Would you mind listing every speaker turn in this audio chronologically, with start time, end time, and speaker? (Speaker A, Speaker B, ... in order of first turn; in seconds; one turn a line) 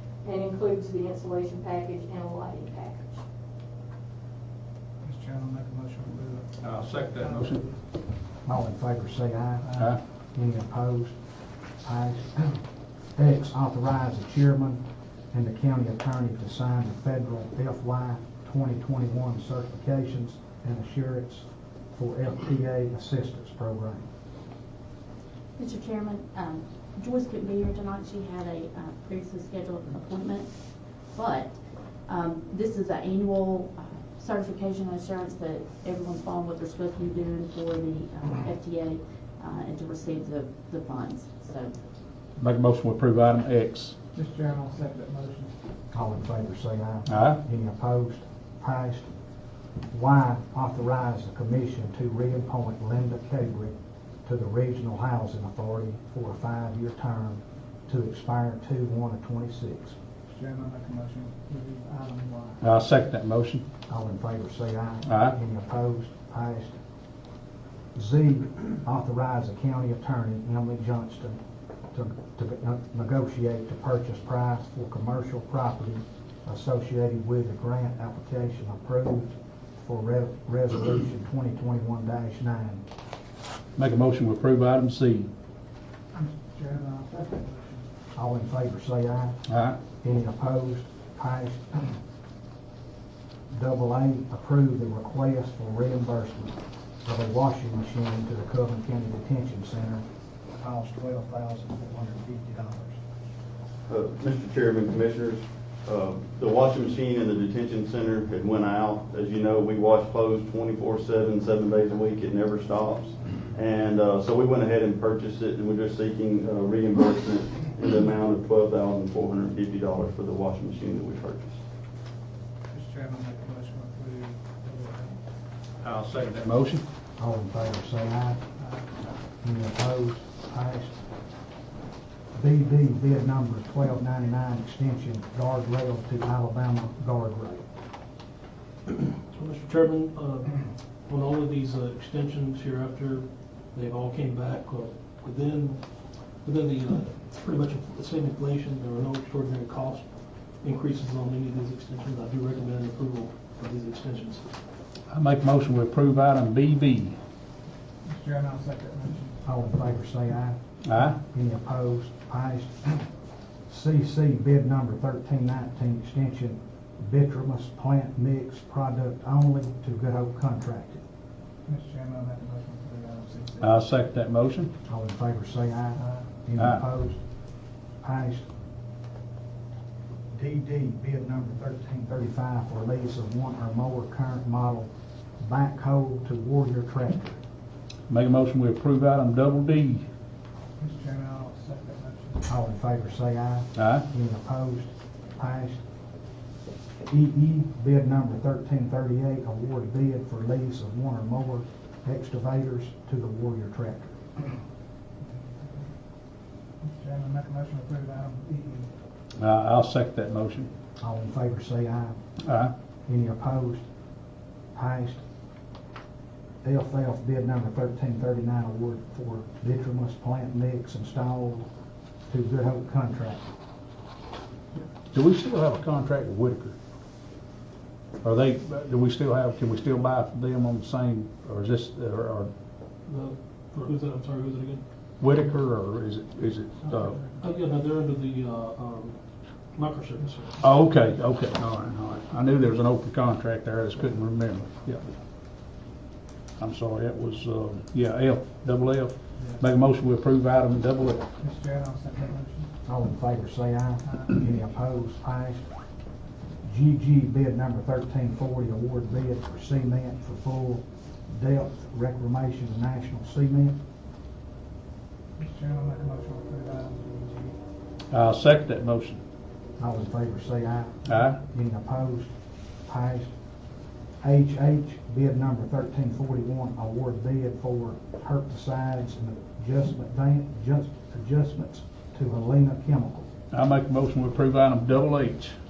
Speaker A: 0.2-3.2
Speaker B: 5.0-7.8
Speaker C: 6.6-7.6
Speaker D: 8.4-9.8
Speaker D: 10.3-11.2
Speaker D: 11.8-12.6
Speaker D: 13.2-24.1
Speaker E: 25.6-30.5
Speaker E: 31.1-31.6
Speaker E: 32.1-41.7
Speaker C: 42.4-44.0
Speaker B: 44.1-45.6
Speaker D: 45.9-49.1
Speaker C: 47.1-47.4
Speaker D: 49.9-60.0
Speaker B: 60.3-62.6
Speaker C: 62.6-63.7
Speaker D: 63.9-66.8
Speaker C: 65.1-65.3
Speaker D: 68.0-71.4
Speaker D: 71.9-82.8
Speaker C: 83.8-85.3
Speaker B: 86.1-87.9
Speaker D: 88.2-89.4
Speaker C: 89.5-89.8
Speaker D: 90.0-92.0
Speaker D: 93.5-100.0
Speaker D: 100.6-103.0
Speaker F: 103.9-121.6
Speaker B: 122.7-125.2
Speaker C: 125.8-126.8
Speaker D: 127.2-128.4
Speaker B: 128.6-128.9
Speaker D: 129.4-131.0
Speaker D: 132.3-137.7
Speaker G: 138.9-154.5
Speaker C: 155.1-157.2
Speaker B: 158.0-159.4
Speaker D: 159.4-160.6
Speaker C: 160.9-161.2
Speaker D: 161.1-163.1
Speaker D: 163.7-171.0
Speaker B: 171.7-173.7
Speaker C: 173.6-174.7
Speaker D: 174.9-177.2
Speaker B: 176.0-176.3
Speaker D: 178.0-178.5
Speaker D: 180.3-187.4
Speaker C: 188.1-190.1
Speaker B: 190.8-192.4
Speaker D: 192.5-195.8
Speaker C: 193.8-194.1
Speaker D: 197.1-204.2
Speaker B: 205.2-205.9
Speaker B: 206.8-208.9
Speaker C: 209.4-210.7
Speaker D: 211.0-212.2
Speaker C: 212.4-212.7
Speaker D: 213.1-213.8
Speaker D: 214.7-215.2
Speaker D: 216.6-221.7
Speaker D: 222.3-223.5
Speaker C: 225.1-226.8
Speaker C: 228.2-232.5
Speaker G: 233.1-234.8
Speaker C: 235.2-237.3
Speaker G: 237.4-240.6
Speaker C: 240.6-245.1
Speaker C: 246.6-251.3
Speaker B: 251.4-252.7
Speaker D: 252.9-255.7
Speaker B: 254.1-254.5
Speaker D: 256.6-263.8
Speaker B: 265.4-267.6
Speaker C: 268.1-269.2
Speaker D: 269.8-272.3
Speaker C: 271.1-271.4
Speaker D: 272.9-273.3
Speaker D: 274.2-283.3
Speaker C: 283.5-285.6